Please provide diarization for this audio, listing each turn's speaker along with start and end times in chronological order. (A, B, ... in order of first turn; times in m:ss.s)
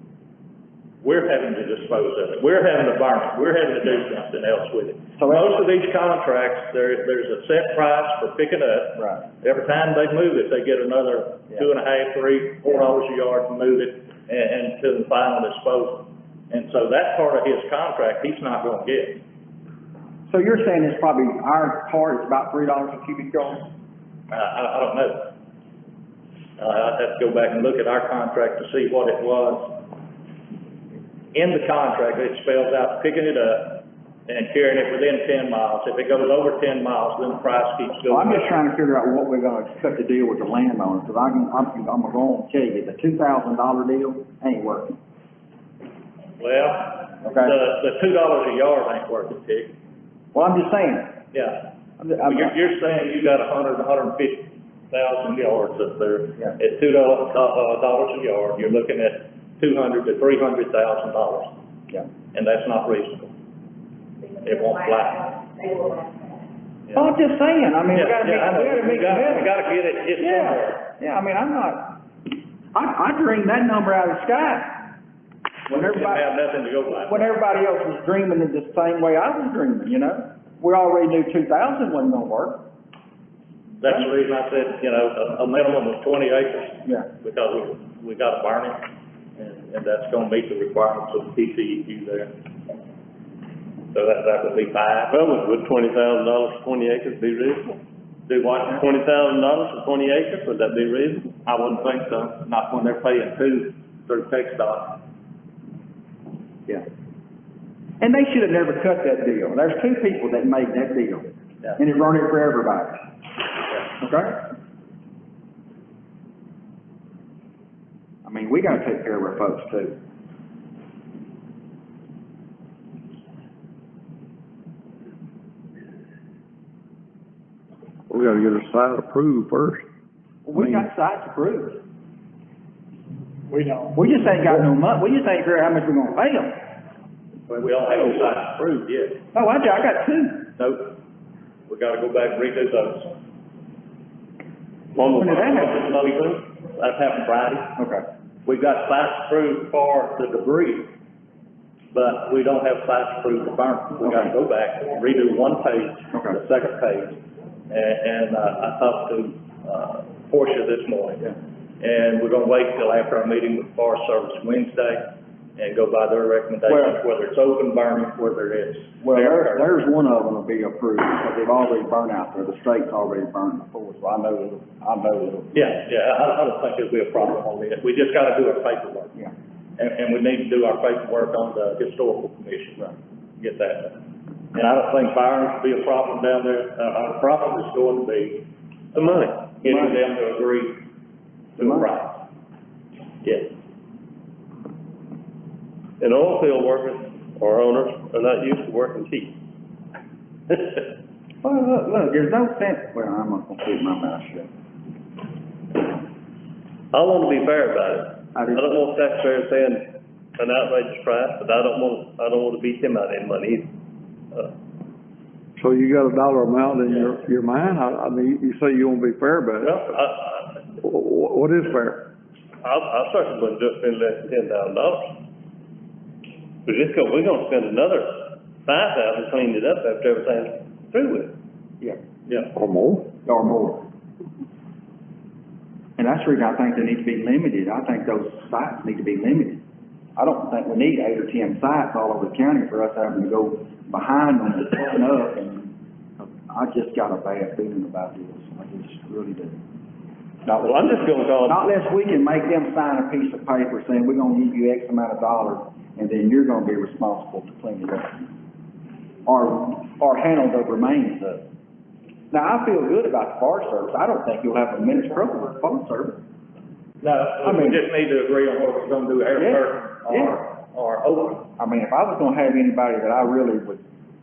0:01.0-0:19.2 A
0:05.2-0:05.6 B
0:09.0-0:09.3 B
0:20.3-0:23.7 B
0:24.3-0:25.3 A
0:26.6-0:29.8 A
0:31.3-0:38.6 A
0:38.1-0:45.0 B
0:46.4-0:49.7 A
0:47.2-0:47.6 B
0:50.3-0:51.2 B
0:51.3-0:51.7 A
0:52.0-0:52.6 B
0:52.2-1:01.5 A
1:02.3-1:03.3 A
1:04.2-1:06.4 C
1:04.4-1:05.4 A
1:07.0-1:09.5 B
1:07.9-1:10.9 A
1:10.2-1:12.0 B
1:12.7-1:14.9 B
1:15.7-1:16.3 B
1:15.7-1:17.3 A
1:17.0-1:22.6 B
1:23.8-1:28.8 A
1:29.4-1:32.3 A
1:33.9-1:35.2 A
1:35.1-1:37.8 D
1:38.3-1:38.9 A
1:38.8-1:41.3 D
1:41.4-1:45.0 A
1:48.0-1:53.0 B
1:54.0-1:54.4 B
1:58.2-2:00.0 B
2:08.1-2:09.8 E
2:10.4-2:11.8 B
2:10.6-2:10.9 E
2:14.0-2:16.6 B
2:17.5-2:19.2 A
2:19.3-2:20.5 B
2:20.6-2:21.0 A
2:21.7-2:23.2 A
2:25.0-2:26.4 D
2:25.1-2:25.8 B
2:25.4-2:27.8 A
2:27.8-2:28.0 B
2:28.5-2:30.9 A
2:31.9-2:49.7 A
2:34.0-2:34.3 B
2:36.1-2:36.4 B
2:46.7-2:47.0 B
2:49.0-2:55.8 B
2:55.5-2:59.2 A
2:59.8-3:02.9 A
3:03.4-3:04.0 A
3:04.5-3:10.8 A
3:09.0-3:09.4 D
3:09.6-3:10.0 B
3:11.6-3:12.2 A
3:11.6-3:11.9 B
3:13.2-3:13.5 A
3:16.0-3:19.4 D
3:21.4-3:24.5 B
3:26.9-3:33.7 D
3:35.6-3:40.0 E
3:39.8-3:40.1 D
3:40.8-3:42.0 E
3:42.6-3:45.1 D
3:46.7-3:51.3 D
3:52.3-3:52.5 A
3:52.6-3:53.1 E
3:53.2-3:53.9 B
3:56.0-3:59.6 B
4:00.2-4:09.6 B
4:10.5-4:18.3 B
4:10.6-4:11.6 D
4:19.3-4:21.4 B
4:22.3-4:26.2 B
4:27.0-4:31.5 A
4:27.4-4:27.8 B
4:29.4-4:30.4 B
4:31.6-4:33.8 B